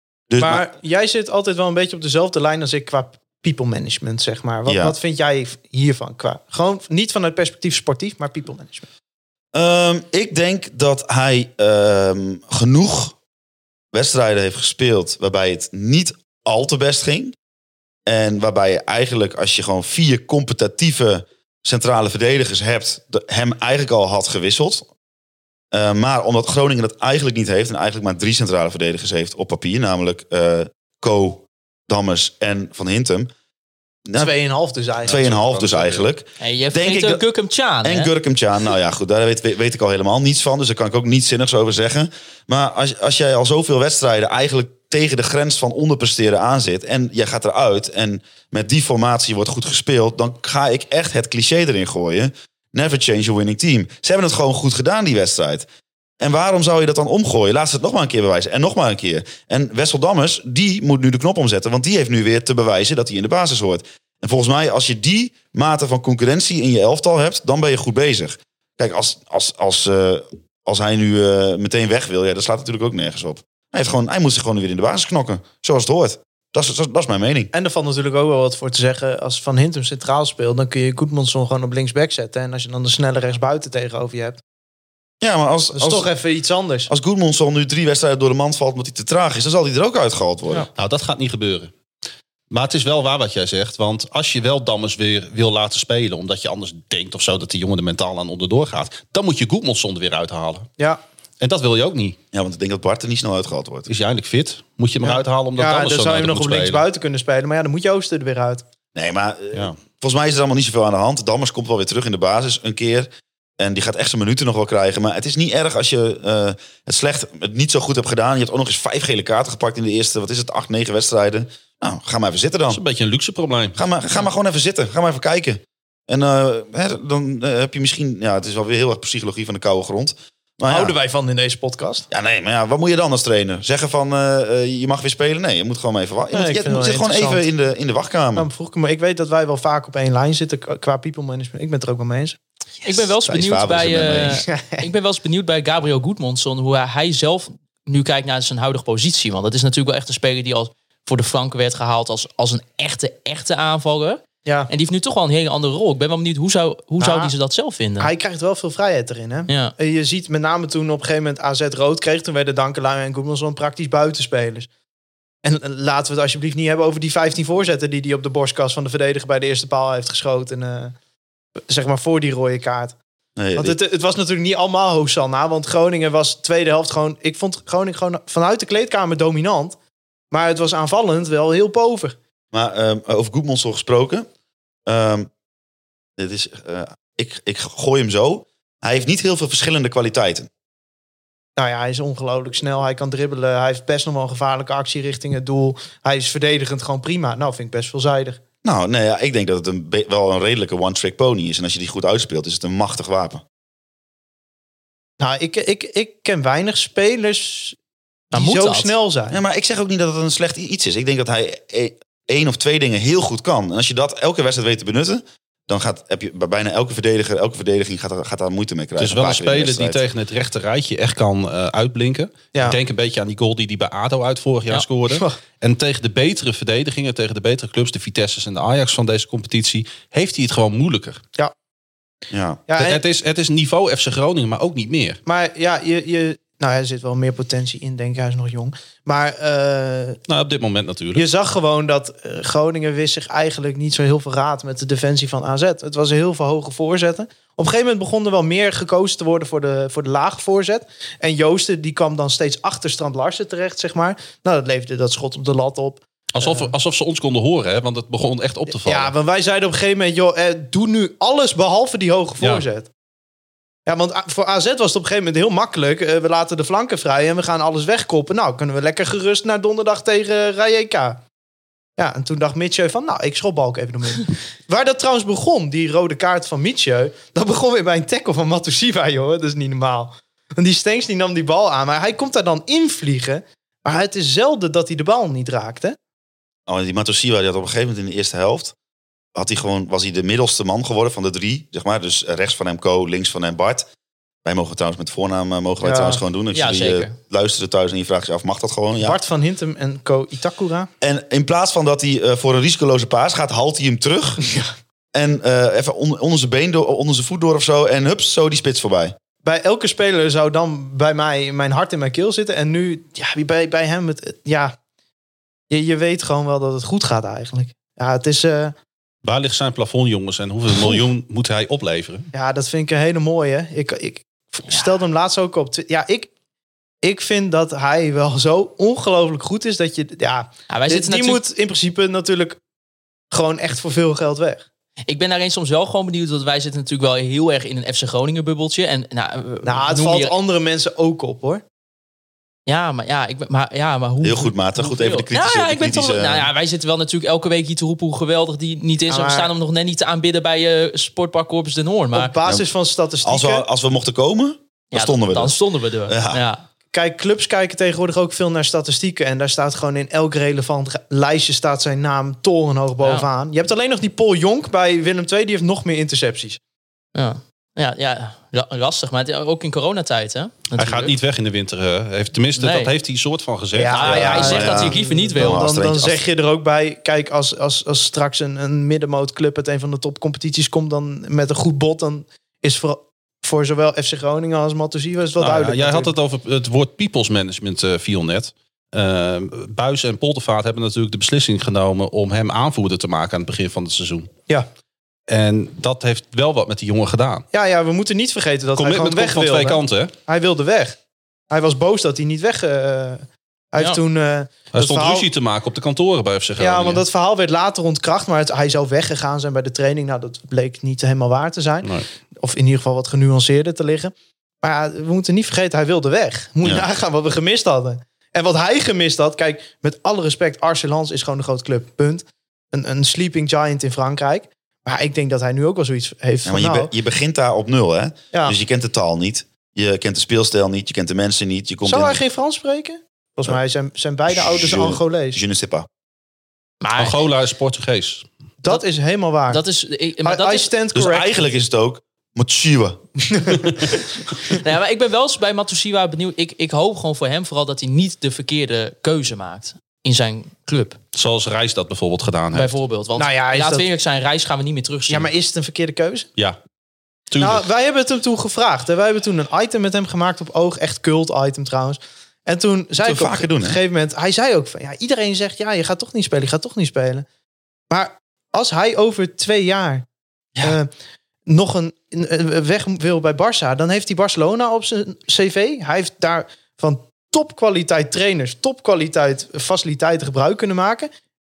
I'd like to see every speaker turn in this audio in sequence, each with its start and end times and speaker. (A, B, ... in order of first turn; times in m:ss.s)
0:00.3-0:00.7 A
0:00.4-0:08.9 B
0:04.7-0:05.0 A
0:09.5-0:13.2 A
0:13.9-0:17.4 A
0:18.1-0:24.9 A
0:25.7-0:33.3 A
0:34.1-0:34.3 A
0:34.2-0:36.0 B
0:35.0-0:37.2 A
0:36.4-0:38.1 C
0:37.8-0:55.7 A
0:56.2-1:17.5 A
1:17.5-1:24.4 B
1:25.2-1:26.1 A
1:25.7-1:26.9 B
1:26.9-1:30.7 A
1:30.8-1:31.7 D
1:32.5-1:40.7 D
1:41.4-1:42.2 D
1:42.3-1:43.9 A
1:43.9-1:46.8 D
1:45.0-1:48.6 B
1:49.0-2:02.8 A
2:02.7-2:03.8 D
2:03.8-2:11.0 A
2:10.7-2:12.1 B
2:12.1-2:18.5 A
2:16.3-2:17.4 B
2:18.4-2:22.4 B
2:22.8-2:38.1 C
2:22.9-2:24.5 A
2:24.5-2:24.8 B
2:34.4-2:34.7 B
2:37.0-2:37.3 B
2:38.0-2:44.7 B
2:39.5-2:39.7 C
2:45.4-2:51.0 B
2:51.7-2:53.0 B
2:53.4-2:53.8 A
2:53.6-2:59.8 B
3:00.3-3:02.2 B
3:02.5-3:04.3 A
3:04.9-3:05.3 A
3:06.2-3:10.5 A
3:11.6-3:18.4 B
3:18.6-3:23.4 A
3:25.2-3:27.8 B
3:28.3-3:28.9 C
3:28.3-3:29.4 B
3:29.3-3:40.0 A
3:39.0-3:51.2 D
3:52.3-3:52.6 A
3:52.7-3:53.0 B
3:52.8-3:55.2 D
3:55.3-4:00.2 B
4:00.3-4:01.2 D
4:01.2-4:16.7 B
4:16.3-4:19.1 D
4:18.7-4:22.9 B
4:22.4-4:22.6 D
4:23.9-4:31.2 B
4:32.0-4:46.0 B
4:46.7-4:48.8 A
4:49.4-4:53.9 A
4:54.4-4:59.2 A
4:55.8-4:56.2 B
4:56.5-4:57.2 C
4:59.0-5:00.9 B
5:01.0-5:04.4 A
5:05.1-5:09.2 A
5:09.4-5:14.8 B
5:15.7-5:18.8 B
5:19.2-5:22.3 D
5:22.3-5:26.3 B
5:27.0-5:32.6 B
5:30.7-5:31.4 C
5:33.3-5:34.7 B
5:35.1-5:40.3 C
5:39.6-5:41.6 B
5:42.7-5:52.3 C
5:44.2-5:46.5 A
5:49.1-5:49.5 B
5:52.1-5:53.6 B
5:52.4-5:52.7 A
5:53.2-5:56.4 A
5:54.9-5:56.6 C
5:56.9-6:06.6 B
6:03.0-6:03.3 C
6:07.2-6:11.1 C
6:10.8-6:14.8 D
6:12.6-6:12.9 C
6:13.7-6:26.1 B
6:13.9-6:15.6 C
6:14.3-6:16.2 A
6:25.4-6:34.3 D
6:35.3-6:37.5 D
6:37.5-6:41.0 B
6:38.8-6:40.1 D
6:41.5-6:45.3 B
6:44.7-6:47.0 D
6:46.6-7:06.9 B
6:56.6-6:56.9 A
7:06.4-7:12.2 A
7:11.8-7:15.4 B
7:14.3-7:15.9 A
7:16.8-7:17.2 C
7:17.0-7:18.2 D
7:18.6-7:19.6 B
7:19.5-7:20.7 C
7:20.2-7:21.3 B
7:20.9-7:23.0 A
7:23.3-7:23.8 B
7:24.6-7:31.0 C
7:31.1-7:32.7 D
7:32.5-7:35.3 C
7:33.2-7:33.8 B
7:35.1-7:36.3 B
7:37.3-7:37.6 D
7:37.4-7:47.3 B
7:43.0-7:43.8 A
7:47.9-7:50.0 B
7:50.6-7:50.9 B
7:51.5-8:01.1 B